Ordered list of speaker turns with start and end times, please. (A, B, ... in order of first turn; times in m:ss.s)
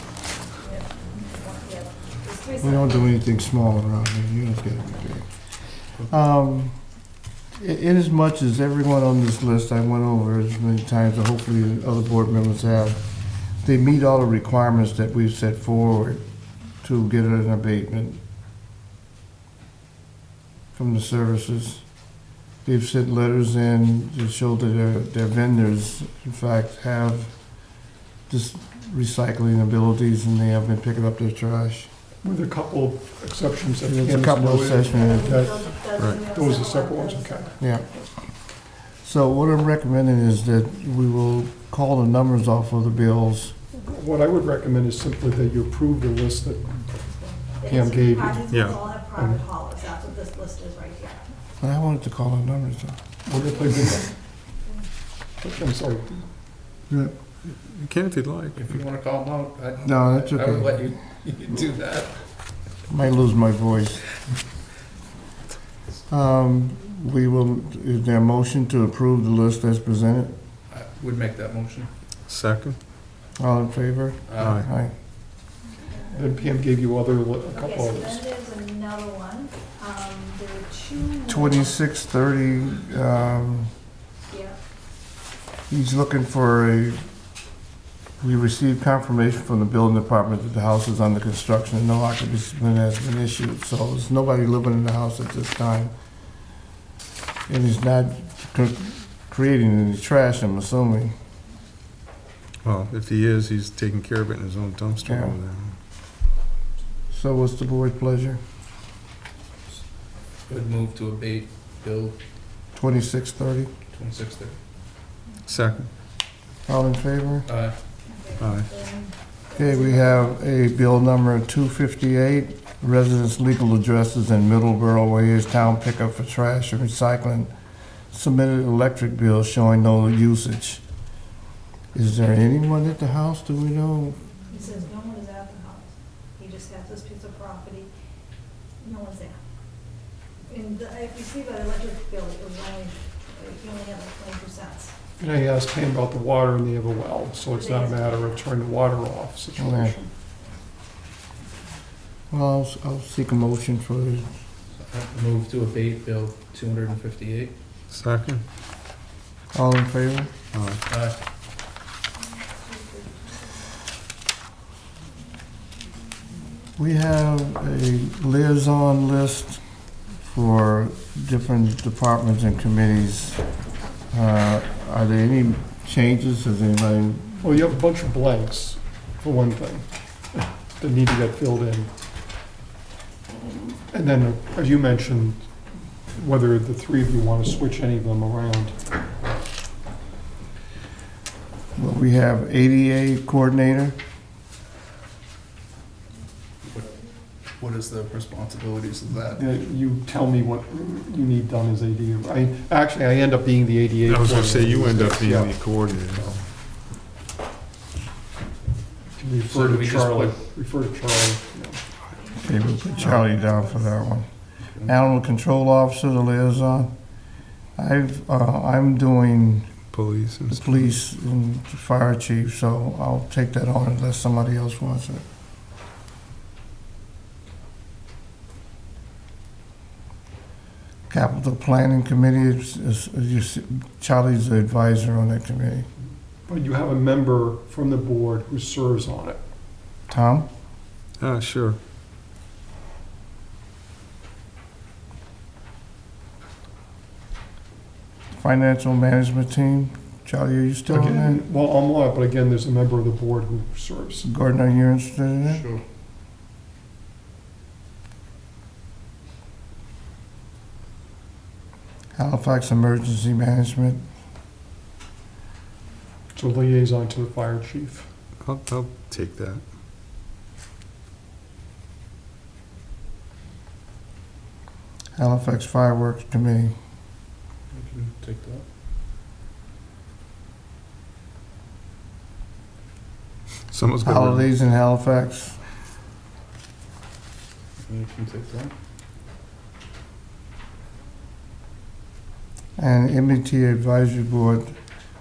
0:00.6-0:03.2 A
0:02.6-0:05.5 B
0:06.1-0:06.7 B
0:07.6-0:13.0 B
0:13.6-0:16.2 B
0:16.8-0:18.2 B
0:20.7-0:21.8 B
0:22.6-0:27.3 B
0:28.3-0:31.9 B
0:32.2-0:37.6 C
0:33.9-0:35.4 B
0:34.9-0:37.6 A
0:36.0-0:36.2 D
0:37.6-0:38.0 B
0:39.0-0:43.6 B
0:43.8-0:46.9 C
0:47.0-0:51.2 A
0:47.7-0:48.5 C
0:48.5-0:48.8 D
0:49.2-0:49.4 C
0:51.6-0:53.0 B
0:53.3-0:54.1 C
0:55.4-0:56.2 C
0:57.5-0:58.7 D
0:58.6-1:02.1 E
0:59.8-1:00.9 B
1:02.9-1:04.1 B
1:06.1-1:10.4 B
1:10.7-1:11.9 E
1:12.3-1:12.8 D
1:13.4-1:14.9 B
1:14.3-1:14.6 E
1:14.4-1:14.7 D
1:16.1-1:18.2 C
1:17.5-1:21.8 A
1:21.3-1:23.7 B
1:24.3-1:24.6 A
1:25.7-1:27.0 B
1:28.2-1:35.9 B
1:37.5-1:41.1 B
1:42.6-1:45.8 D
1:45.0-1:45.4 B
1:47.1-1:48.4 B
1:50.4-1:52.2 E
1:52.8-1:53.7 B
1:53.9-1:54.6 E
1:55.5-1:55.9 D
1:56.7-1:57.5 B
1:57.5-1:57.8 E
1:58.1-2:00.4 A
1:58.4-1:58.7 D
1:59.6-2:07.5 B
2:08.1-2:10.8 B
2:11.9-2:14.2 B
2:14.5-2:17.9 A
2:18.8-2:19.4 A
2:20.5-2:25.0 A
2:25.2-2:30.1 C
2:27.5-2:28.5 A
2:29.6-2:30.0 B
2:32.3-2:34.3 B
2:34.8-2:37.5 E
2:37.9-2:38.4 D
2:39.5-2:40.3 B
2:40.5-2:40.8 D
2:40.9-2:41.2 E
2:42.7-2:43.1 A
2:46.8-2:49.6 B
2:50.2-2:53.4 B
2:54.1-2:57.6 B
2:57.4-3:01.9 C
3:03.9-3:05.4 C
3:06.1-3:08.8 C
3:11.8-3:14.0 B
3:16.7-3:16.9 E
3:17.6-3:19.4 E
3:19.4-3:26.4 C
3:24.1-3:26.4 D
3:29.1-3:31.8 C
3:29.5-3:30.4 E
3:32.2-3:34.1 A
3:32.4-3:34.3 B
3:34.8-3:36.9 B
3:37.8-3:39.7 B
3:39.9-3:40.8 D
3:40.5-3:45.2 B
3:51.1-3:55.9 B
3:56.5-3:59.4 C
4:00.1-4:00.5 B
4:01.2-4:01.8 D
4:08.4-4:11.4 B
4:10.9-4:14.3 C
4:14.2-4:15.7 B
4:15.5-4:15.8 E
4:22.2-4:24.0 B
4:26.3-4:28.1 C
4:28.4-4:29.6 D
4:35.2-4:36.7 B
4:37.7-4:38.6 E
4:43.7-4:44.5 D
4:44.0-4:45.6 B
4:47.9-4:48.7 E
4:52.8-4:54.8 B